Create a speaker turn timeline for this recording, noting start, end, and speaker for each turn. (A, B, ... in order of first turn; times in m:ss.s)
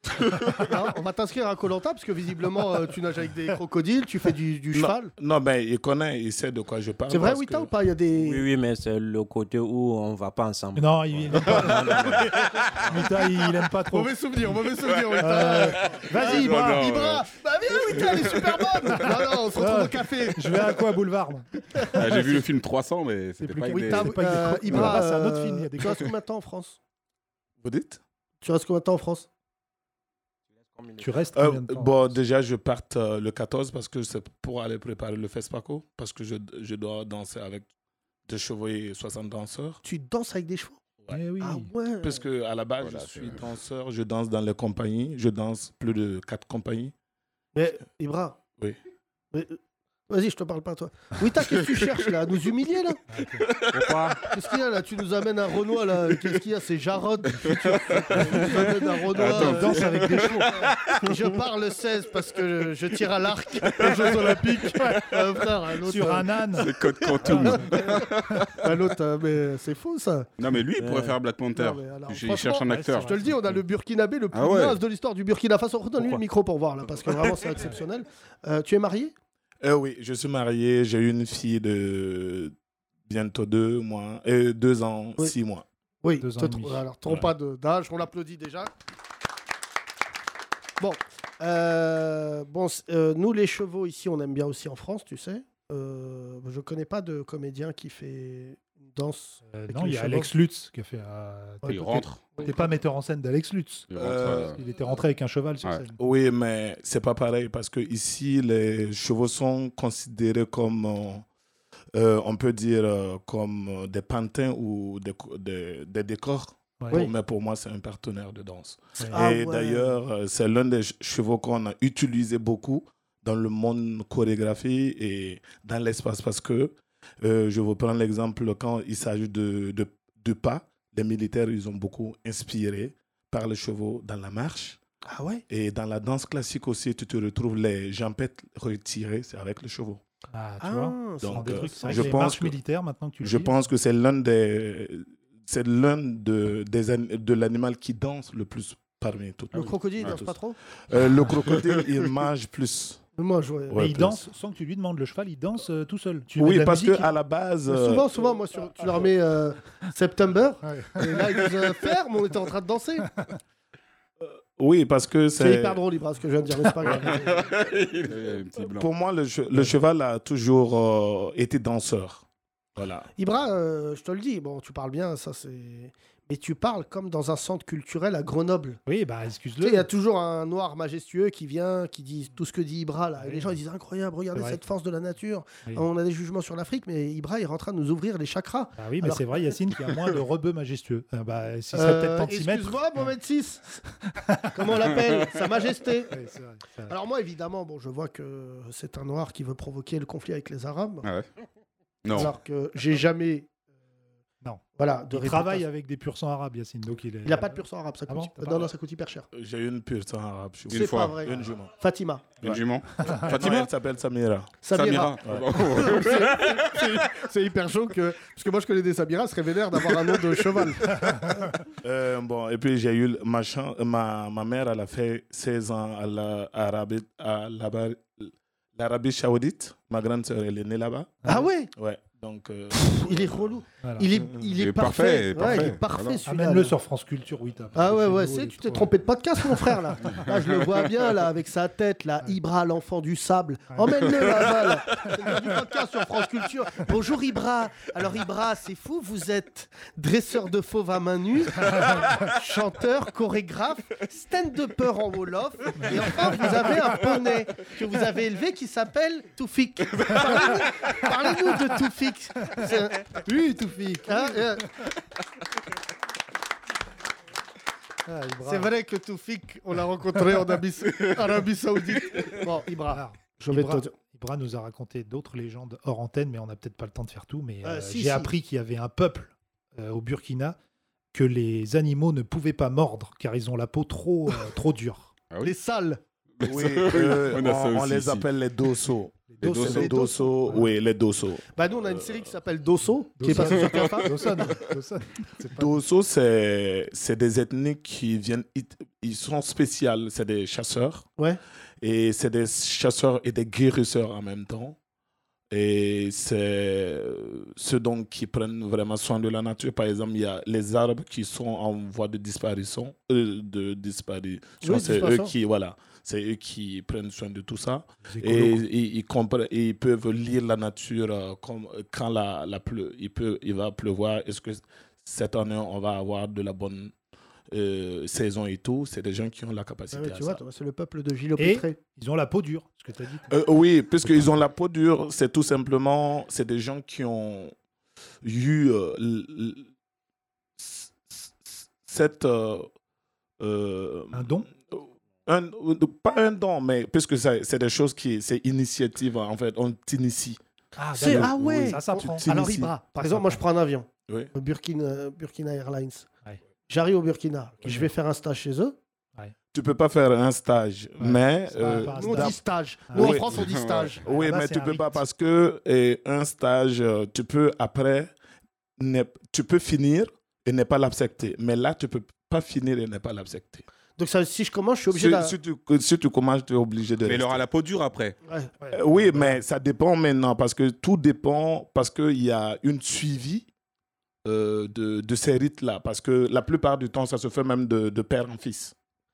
0:00.4-0:05.1 A
0:04.7-0:07.7 B
0:07.1-0:08.4 A
0:08.1-0:12.3 C
0:10.8-0:14.5 D
0:13.9-0:20.8 A
0:15.2-0:16.9 D
0:15.8-0:17.4 E
0:17.9-0:18.9 E
0:19.5-0:22.5 D
0:21.9-0:25.0 E
0:23.4-0:26.1 D
0:23.7-0:26.8 A
0:27.6-0:28.0 B
0:28.4-0:29.3 A
0:30.6-0:31.2 C
0:31.0-0:32.2 D
0:31.3-0:37.7 B
0:38.3-0:39.8 B
0:39.8-0:40.8 A
0:41.1-0:41.7 D
0:41.4-0:42.2 A
0:42.0-0:46.9 B
0:42.8-0:43.4 E
0:47.5-0:48.4 A
0:49.3-0:53.0 A
0:53.1-0:53.5 D
0:53.7-0:54.2 C
0:54.2-1:10.3 A
0:57.4-1:01.3 E
0:59.2-1:00.7 D
1:03.6-1:05.2 E
1:05.8-1:08.4 D
1:06.5-1:08.7 E
1:10.4-1:13.1 E
1:10.8-1:11.2 C
1:11.5-1:19.1 A
1:12.7-1:13.4 D
1:14.3-1:14.8 E
1:19.6-1:22.5 B
1:23.0-1:25.6 B
1:26.0-1:28.7 A
1:26.2-1:26.8 D
1:30.8-1:40.3 A
1:39.5-1:46.0 D
1:41.6-1:42.6 A
1:41.6-1:42.4 E
1:43.9-1:44.6 E
1:43.9-1:44.6 B
1:46.0-1:51.2 B
1:51.9-2:14.8 B
1:59.1-2:00.0 A
2:15.0-2:15.4 A
2:15.5-2:20.0 B
2:20.3-2:23.5 D
2:20.6-2:22.3 A
2:21.2-2:22.6 B
2:23.2-2:30.4 B
2:29.5-2:30.6 A
2:30.9-2:33.0 B
2:33.2-2:34.0 A
2:33.7-2:34.2 B
2:33.7-2:37.1 D
2:36.4-2:38.1 B
2:37.7-2:43.1 A
2:40.6-2:41.2 D
2:44.2-2:45.8 B
2:45.4-2:47.5 A
2:46.9-2:48.9 E
2:48.6-2:52.2 B
2:52.8-2:53.1 B
2:53.2-2:58.8 A
2:58.8-2:59.9 D
2:59.6-3:09.5 A
3:03.2-3:03.6 D
3:04.3-3:04.6 D
3:08.8-3:13.0 D
3:11.7-3:13.8 A
3:14.0-3:14.7 D
3:14.5-3:16.2 A
3:16.1-3:16.9 D
3:16.9-3:21.1 A
3:21.0-3:21.3 E
3:22.0-3:22.3 E
3:22.1-3:23.5 A
3:24.4-3:28.7 D
3:24.8-3:25.6 A
3:27.2-3:29.3 A
3:29.3-3:31.7 B
3:30.7-3:31.2 E
3:30.7-3:32.3 A
3:32.4-3:33.7 E
3:32.4-3:34.7 B
3:33.0-3:33.5 D
3:34.6-3:41.6 A
3:34.7-3:36.9 E
3:35.2-3:35.6 B
3:40.9-3:41.5 D
3:41.8-3:51.2 B
3:51.2-3:51.7 A
3:51.7-3:53.6 B
3:52.7-3:56.7 A
3:53.8-3:54.1 D
3:54.6-3:56.2 E
3:55.4-3:55.7 D
3:56.2-3:58.9 D
3:57.7-4:23.2 A
3:59.5-4:00.1 D
4:00.1-4:00.8 E
4:03.7-4:04.0 D
4:11.7-4:12.2 D
4:22.6-4:24.6 D
4:24.0-4:24.7 A
4:28.0-4:28.7 D
4:28.4-4:33.9 A
4:32.9-4:40.6 D
4:37.6-4:38.3 A
4:41.1-4:45.1 D
4:45.4-4:46.0 A
4:46.4-4:48.3 E
4:46.4-4:52.2 B
4:49.3-4:49.7 D
4:49.4-4:49.9 E
4:49.4-4:50.3 A
4:51.5-4:54.6 A
4:53.2-4:55.8 D
4:55.5-5:01.0 B
5:01.8-5:04.8 B
5:05.5-5:26.9 B
5:14.6-5:15.3 A
5:18.0-5:18.6 D
5:27.5-5:30.4 B
5:29.9-5:31.8 A
5:31.4-5:33.3 D
5:33.3-5:37.5 B
5:38.2-5:39.7 B
5:40.6-5:42.7 B
5:43.4-5:50.4 B
5:44.1-5:44.5 D
5:50.8-5:53.4 D
5:51.0-5:56.1 A
5:51.0-5:52.7 B
5:56.7-5:58.8 A
5:57.6-5:57.9 D
5:59.5-6:02.4 B
6:01.0-6:03.2 D
6:01.6-6:04.0 A
6:02.9-6:03.5 B
6:03.3-6:04.0 E
6:04.0-6:08.1 B
6:04.0-6:05.0 D
6:08.8-6:13.6 B
6:14.0-6:15.4 A
6:14.9-6:17.4 B
6:17.0-6:18.2 E
6:18.2-6:18.5 A
6:18.6-6:19.4 D
6:18.7-6:23.5 B
6:24.2-6:28.7 B